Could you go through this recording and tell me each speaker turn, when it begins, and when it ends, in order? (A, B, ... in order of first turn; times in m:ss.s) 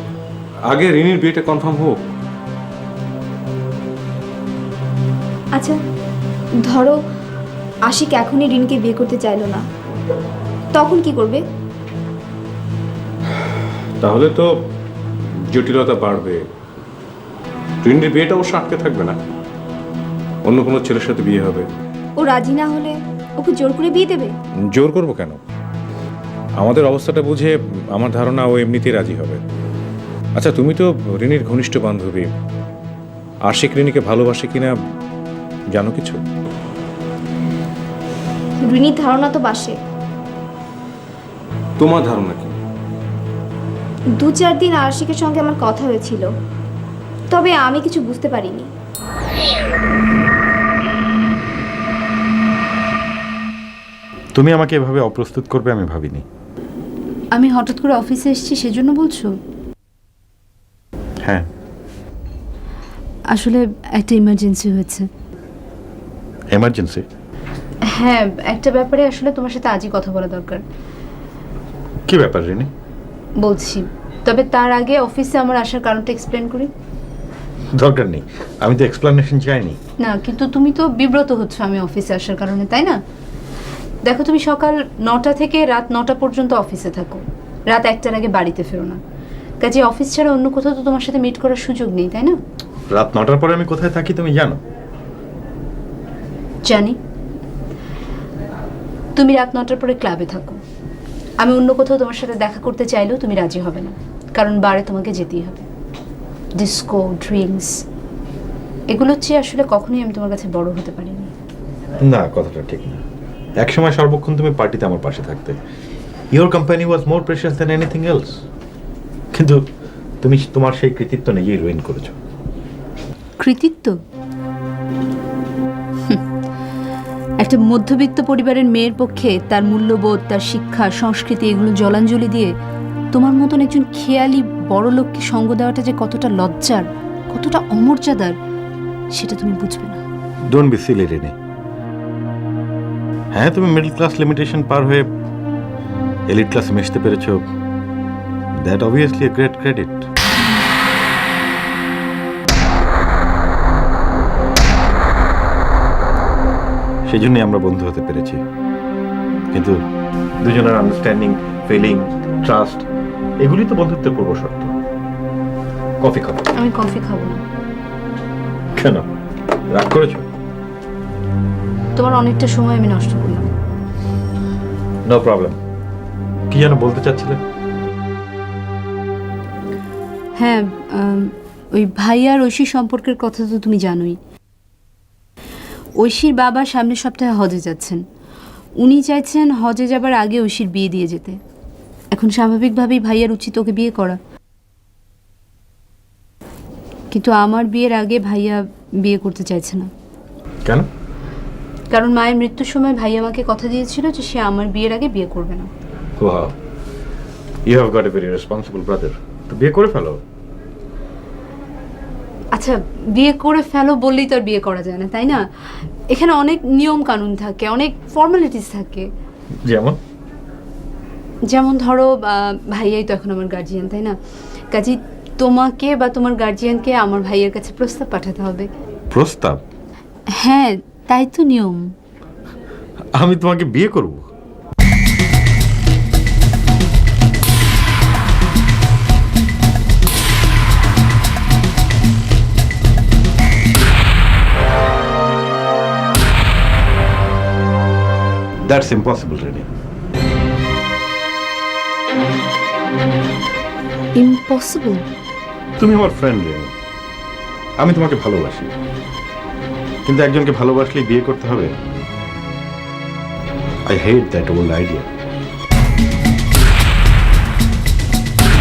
0:00.7-0:02.0 A
0:06.7-0:07.0 B
0:07.9-0:09.6 B
0:10.7-0:11.4 B
0:14.0-0:14.5 A
0:15.5-0:16.4 A
0:17.8-0:19.2 A
0:20.4-0:21.7 A
0:22.2-0:24.3 B
0:24.7-0:25.4 A
0:26.6-0:29.4 A
0:30.4-0:32.3 A
0:33.4-0:34.8 A
0:35.7-0:36.2 A
0:38.6-0:39.8 B
0:41.8-0:42.6 A
0:44.2-0:46.3 B
0:47.3-0:48.7 B
0:54.4-0:56.2 C
0:57.4-0:59.3 D
1:03.3-1:05.1 D
1:06.5-1:07.0 C
1:07.9-1:10.6 D
1:12.1-1:12.7 C
1:13.4-1:16.7 D
1:17.8-1:19.8 C
1:20.0-1:23.0 D
1:24.0-1:29.0 D
1:29.6-1:32.4 D
1:32.9-1:34.6 C
1:36.6-1:37.0 D
1:39.2-1:40.6 D
1:41.4-1:45.7 D
1:46.6-1:47.8 D
1:48.9-1:51.3 D
1:52.0-1:53.0 C
1:53.6-1:55.6 C
1:56.3-1:58.4 C
1:59.3-1:59.6 C
2:00.2-2:02.2 C
2:03.4-2:04.0 D
2:07.4-2:12.5 D
2:13.1-2:18.4 D
2:19.1-2:20.0 D
2:20.5-2:21.4 C
2:23.3-2:25.1 C
2:26.3-2:27.5 C
2:28.6-2:30.1 C
2:37.1-2:38.4 C
2:39.5-2:39.8 C
2:40.4-2:42.9 C
2:43.4-2:44.7 C
2:46.0-2:46.4 C
2:46.6-2:47.4 D
2:48.8-2:49.1 C
2:49.7-2:50.3 C
2:52.0-2:53.5 D
2:55.1-2:55.6 C
2:56.5-2:57.4 C
3:00.4-3:04.2 D
3:06.0-3:08.0 D
3:08.8-3:11.4 D
3:12.1-3:14.2 D
3:17.1-3:19.9 D
3:21.9-3:25.7 D
3:26.2-3:26.5 C
3:27.7-3:30.2 C
3:32.5-3:39.1 D
3:39.7-3:40.0 C
3:41.5-3:44.2 D
3:44.7-3:48.7 D
3:49.1-3:49.6 C
3:50.4-3:51.9 D
3:53.2-3:54.3 C
4:08.7-4:09.7 C
4:14.2-4:15.0 D
4:15.8-4:16.7 C
4:17.8-4:18.7 C
4:20.1-4:21.7 C
4:23.9-4:25.1 C